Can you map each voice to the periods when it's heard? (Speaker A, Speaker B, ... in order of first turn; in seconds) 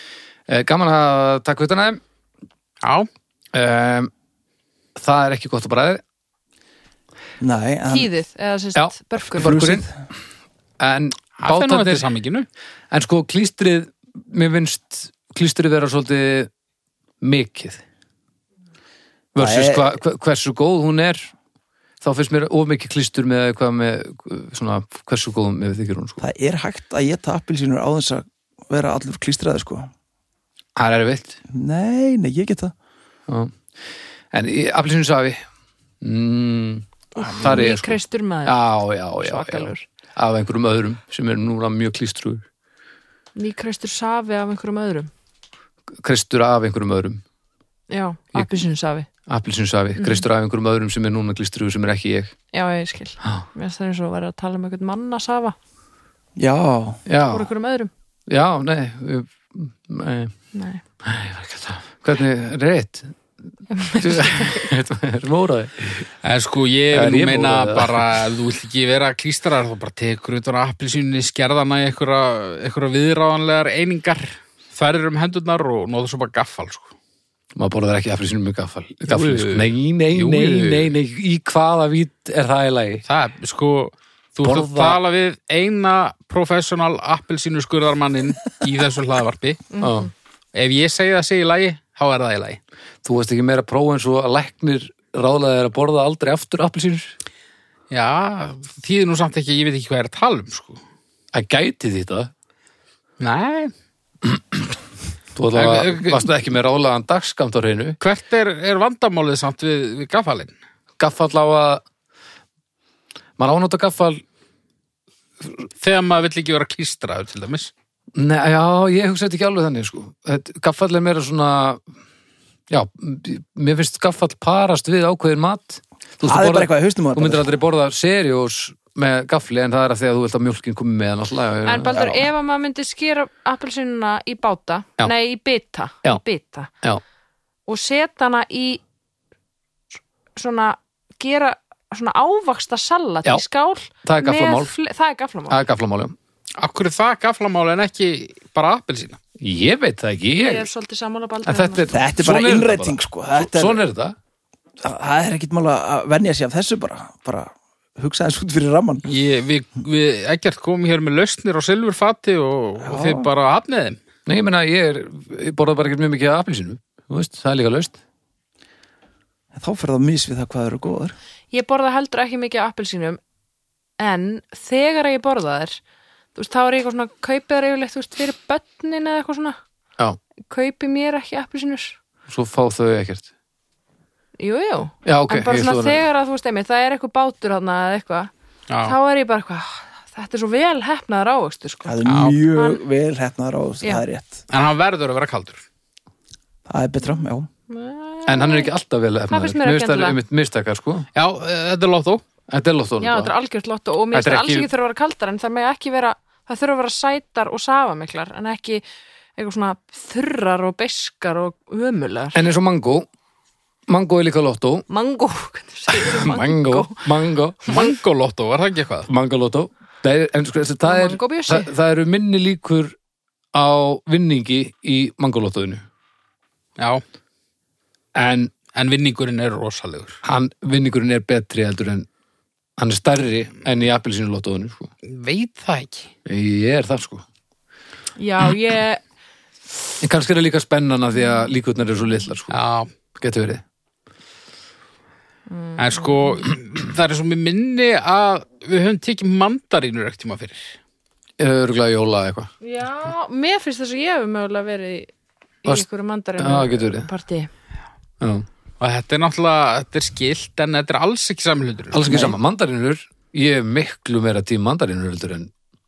Speaker A: 0.5-2.0, 3.5-4.1, 5.0-6.0, 8.8-9.9, 10.8-12.1, 12.9-16.5, 17.2-17.8, 19.4-21.3, 22.0-26.2, 30.8-31.4, 33.3-33.6, 34.3-35.4, 36.0-42.5, 46.0-47.2, 49.3-52.3, 57.1-57.5, 58.3-60.3, 61.0-63.2, 63.9-66.1, 66.9-68.1, 77.6-83.0, 84.4-85.0, 89.8-90.1, 93.0-97.1, 101.3-102.3, 104.3-104.6, 105.4-108.0, 111.0-111.8, 113.4-114.2, 118.2-121.8, 122.7-131.9, 144.0-144.7, 145.5-146.2, 149.4-150.7, 151.5-154.2, 164.3-168.0, 182.3-183.3, 185.1-186.1, 198.3-201.1, 202.5-203.3, 204.1-204.7, 212.3-213.1, 213.9-214.8, 215.9-217.7, 219.1-222.9, 223.5-225.8, 228.2-228.5, 230.2-232.1, 232.8-234.9, 236.3-237.2, 240.0-242.6, 243.2-243.6, 251.4-252.5, 256.4-257.1, 258.2-258.5, 261.9-265.5
Speaker B: 2.8-3.1, 11.4-12.5, 66.2-76.9, 79.1-81.0, 83.0-89.7, 90.5-92.6, 97.9-100.8, 103.2-103.7, 105.5-106.3, 108.0-110.5, 115.8-117.7, 146.6-149.2, 159.1-164.0, 188.7-189.0, 192.0-192.4, 194.5-195.6, 201.2-202.2, 217.7-219.1, 226.8-227.0, 228.7-230.2, 235.1-236.1, 242.5-242.9, 245.8-250.7, 258.8-262.1
Speaker C: 7.4-8.1, 9.4-9.9, 19.4-19.9, 26.2-29.9, 31.5-32.7, 37.2-37.7, 56.4-57.0, 126.2-127.5, 131.9-132.2, 151.9-153.8, 154.8-159.0, 162.8-163.3, 169.5-171.2, 191.8-194.4, 196.7-197.5, 262.1-262.4
Speaker D: 7.9-9.7, 37.2-38.6, 39.2-39.9, 43.4-45.1, 47.9-49.1, 50.0-50.2, 52.5-55.6, 57.3-57.9, 60.5-60.8, 63.7-64.6, 89.7-90.1, 131.6-136.7, 137.7-138.8, 140.4-145.6, 150.4-151.9, 171.5-173.2, 174.0-175.8, 176.3-179.6, 180.5-182.0, 184.4-188.3, 188.8-192.0, 192.5-192.8, 197.7-198.7, 199.3-200.2, 203.0-208.8, 209.4-212.4, 214.9-217.1, 220.8-221.7, 238.2-239.0, 245.5-246.4, 252.6-255.1, 255.6-257.5